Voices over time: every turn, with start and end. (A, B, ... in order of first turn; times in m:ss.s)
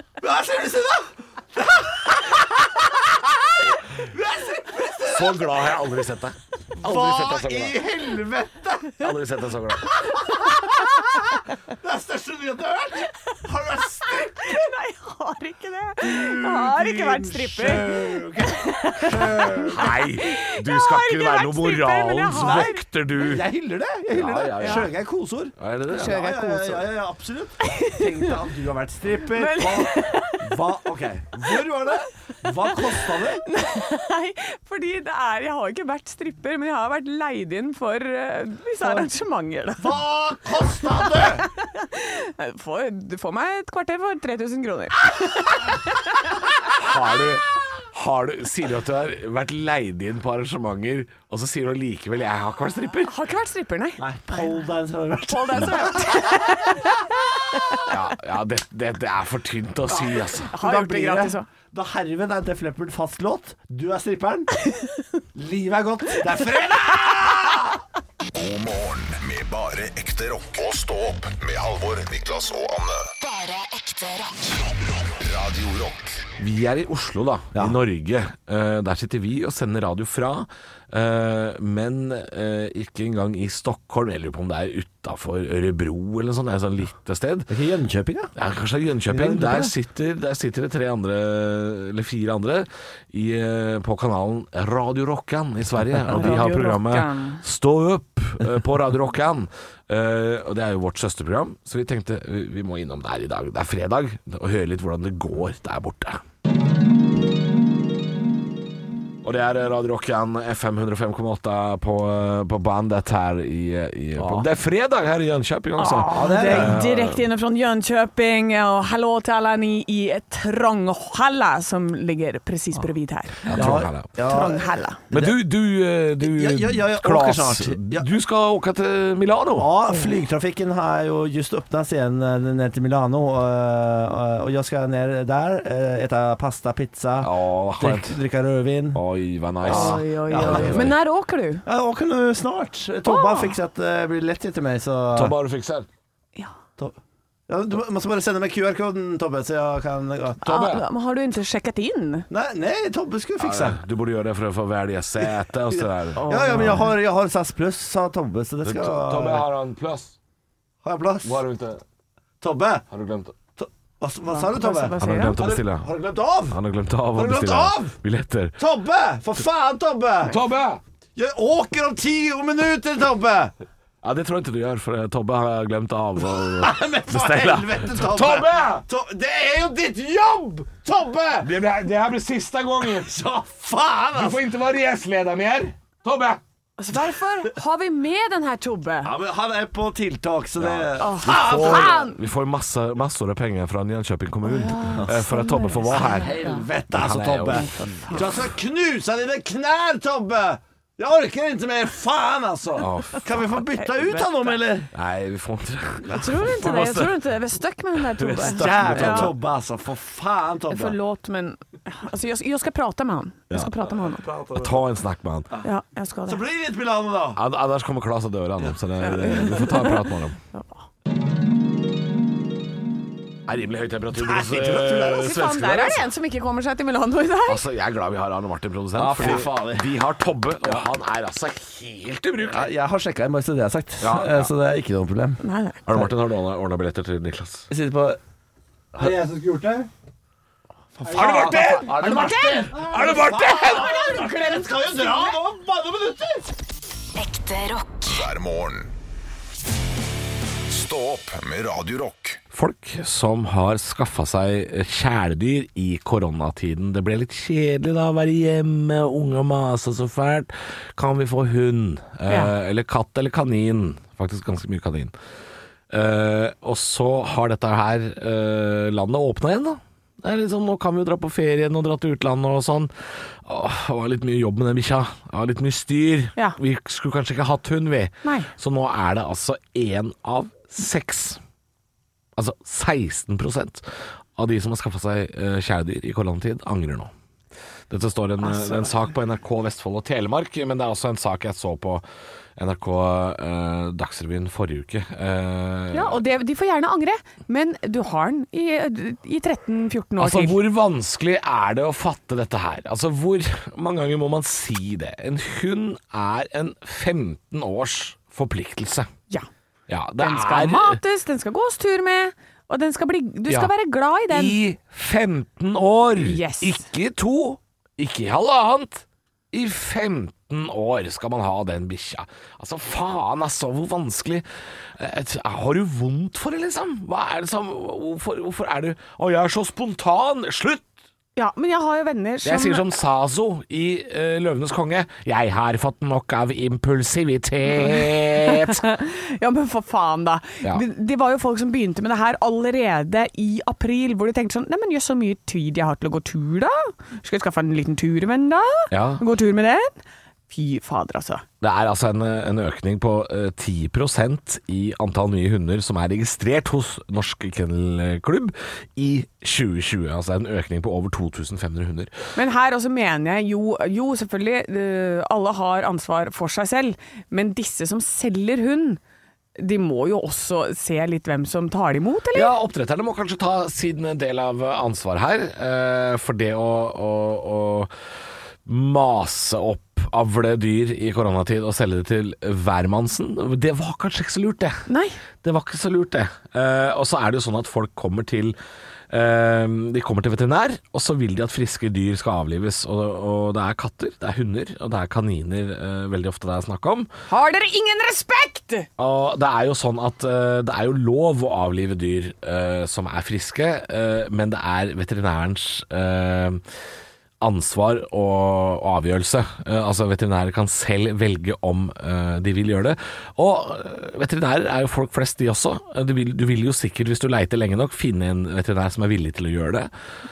0:00.2-0:05.7 A
0:05.1-0:07.8 B
0:06.8-0:09.1 A
0:09.0-0:10.0 B
0:09.9-0:14.7 A
0:14.1-0:22.8 C
0:16.0-0:19.9 A
0:19.7-0:23.5 B
0:23.2-0:33.4 A
0:24.1-0:24.9 B
0:24.6-0:24.8 C
0:25.6-0:26.3 B
0:25.9-0:26.8 C
0:27.7-0:28.0 C
0:29.3-0:30.6 C
0:33.4-0:40.0 C
0:38.8-0:39.1 A
0:39.8-0:41.5 A
0:41.6-0:46.2 C
0:46.8-0:53.2 B
0:53.1-0:54.6 C
0:54.0-0:56.9 A
0:55.3-0:57.7 C
0:57.9-1:00.5 B
0:59.9-1:04.6 A
1:00.5-1:01.5 C
1:05.4-1:07.8 A
1:08.3-1:13.1 D
1:13.2-1:14.5 E
1:14.8-1:16.3 D
1:16.4-1:27.5 B
1:27.5-1:28.3 A
1:28.4-1:46.2 B
1:29.1-1:29.7 A
1:36.1-1:37.4 C
1:49.2-1:57.2 B
1:54.2-1:54.5 A
1:55.8-2:05.0 C
1:56.1-1:56.8 A
2:03.4-2:04.4 B
2:03.5-2:05.4 A
2:05.1-2:09.7 B
2:06.2-2:08.1 A
2:09.6-2:19.0 A
2:17.2-2:18.2 B
2:18.9-2:21.0 B
2:19.6-2:21.0 A
2:19.7-2:21.6 C
2:21.7-2:25.3 A
2:23.0-2:23.6 C
2:25.1-2:25.9 B
2:27.5-2:30.4 A
2:30.4-2:30.8 B
2:30.4-2:32.3 C
2:32.3-2:33.8 A
2:33.4-2:36.8 B
2:35.2-2:39.5 A
2:36.2-2:36.9 C
2:38.6-2:40.1 B
2:40.8-2:41.4 A
2:41.2-2:41.8 B
2:42.4-2:42.9 A
2:42.9-2:43.4 B
2:43.6-2:46.6 A
2:44.3-2:45.4 C
2:45.0-2:46.0 B
2:46.5-2:48.6 B
2:47.2-2:48.0 A
2:48.6-2:50.4 A
2:50.3-2:50.8 B
2:51.2-2:53.5 A
2:54.0-2:58.9 B
2:56.2-3:01.5 A
3:01.4-3:03.2 B
3:02.8-3:04.4 A
3:04.1-3:06.4 B
3:06.8-3:09.1 C
3:09.0-3:12.1 A
3:10.6-3:16.3 B
3:11.0-3:12.2 C
3:14.4-3:16.6 C
3:15.9-3:24.9 A
3:16.9-3:18.3 B
3:17.5-3:18.2 C
3:22.8-3:23.6 B
3:23.8-3:24.6 C
3:24.9-3:27.3 B
3:26.1-3:29.3 C
3:28.0-3:29.4 B
3:28.4-3:31.0 A
3:30.7-3:34.3 C
3:33.5-3:35.5 B
3:34.2-3:34.8 A
3:35.6-3:36.4 C
3:36.3-3:37.4 A
3:37.4-3:40.4 B
3:39.0-3:40.7 C
3:43.5-3:46.0 B
3:44.1-3:45.3 A
3:44.9-3:47.6 C
3:47.5-3:52.7 B
3:48.9-3:50.0 A
3:50.6-3:50.9 A
3:52.4-3:55.4 A
3:54.0-3:54.5 B
3:55.4-3:55.8 C
3:55.9-3:57.7 B
3:57.7-3:58.2 A
3:59.0-3:59.9 A
4:01.0-4:06.5 A
4:01.1-4:04.1 B
4:01.2-4:02.7 C
4:03.8-4:05.3 C
4:07.2-4:08.3 E
4:08.1-4:08.9 D
4:10.7-4:12.4 D
4:12.5-4:25.1 B
4:25.9-4:32.9 B
4:33.4-4:41.4 B
4:38.2-4:38.5 C
4:42.4-4:47.1 B
4:47.9-4:52.0 B
4:48.4-4:48.8 C
4:52.6-4:56.2 B
4:55.9-5:00.6 C
5:00.2-5:09.1 B
5:09.9-5:11.0 B
5:10.2-5:14.6 C
5:14.3-5:24.4 B
5:16.2-5:16.8 C
5:25.0-5:30.9 B
5:31.4-5:32.8 C
5:32.4-5:38.8 B
5:38.4-5:51.4 C
5:48.9-5:49.2 B
5:51.6-6:02.1 B
6:02.4-6:09.0 C
6:09.6-6:12.5 C
6:12.3-6:17.9 B
6:18.7-6:24.9 B
6:24.9-6:25.2 C
6:25.4-6:28.6 B
6:29.1-6:37.1 B
6:37.3-6:38.9 C
6:39.0-6:46.6 B
6:47.4-6:59.9 B